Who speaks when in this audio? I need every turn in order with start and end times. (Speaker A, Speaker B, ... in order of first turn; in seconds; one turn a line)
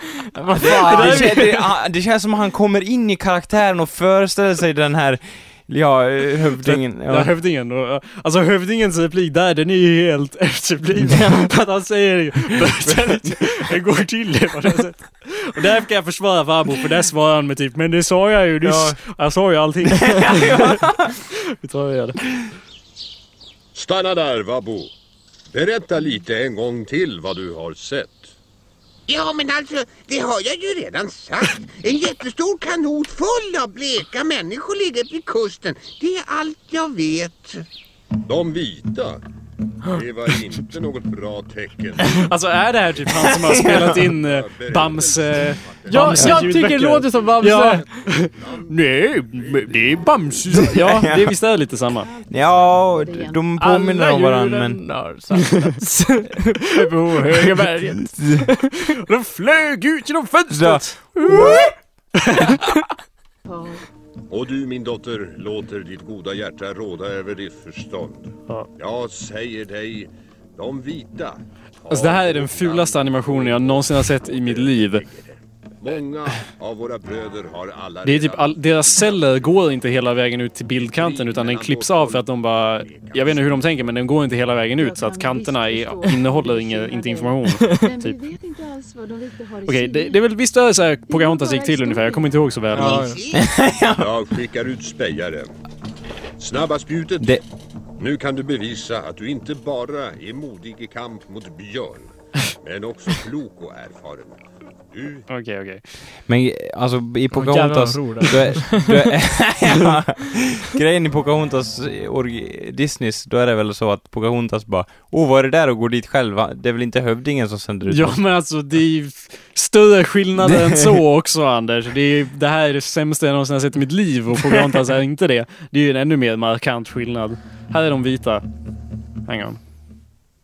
Speaker A: 0.3-1.6
Speaker B: 0.6-7.3
Speaker C: 0.9-1.5
Speaker C: 6.6-22.2
Speaker A: 11.0-11.5
Speaker B: 12.9-13.3
Speaker B: 18.6-19.0
Speaker B: 19.9-21.1
Speaker D: 23.7-24.9
Speaker D: 25.5-28.4
Speaker E: 29.1-37.6
Speaker D: 38.3-39.2
Speaker D: 39.9-42.3
Speaker C: 42.1-52.1
Speaker B: 43.2-44.0
Speaker D: 44.0-46.5
Speaker A: 45.9-48.0
Speaker D: 48.2-48.7
Speaker D: 49.3-50.1
Speaker B: 50.5-51.4
Speaker F: 51.8-53.5
Speaker B: 52.3-54.8
Speaker A: 53.6-59.0
Speaker C: 55.4-55.8
Speaker B: 58.2-58.4
Speaker C: 58.9-61.4
Speaker B: 60.5-61.7
Speaker A: 61.2-61.7
Speaker C: 62.2-62.7
Speaker F: 63.5-63.9
Speaker D: 64.3-79.6
Speaker C: 71.9-75.0
Speaker C: 78.0-88.2
Speaker D: 80.8-83.7
Speaker F: 84.8-90.3
Speaker C: 89.7-93.1
Speaker F: 91.1-92.4
Speaker A: 92.7-93.2
Speaker E: 92.8-93.5
Speaker B: 93.3-94.2
Speaker D: 93.9-95.5
Speaker D: 96.4-97.4
Speaker D: 98.0-104.4
Speaker D: 104.9-105.3
Speaker C: 105.3-105.8
Speaker B: 106.3-118.2
Speaker A: 107.3-109.1
Speaker C: 117.9-128.4
Speaker C: 129.3-129.6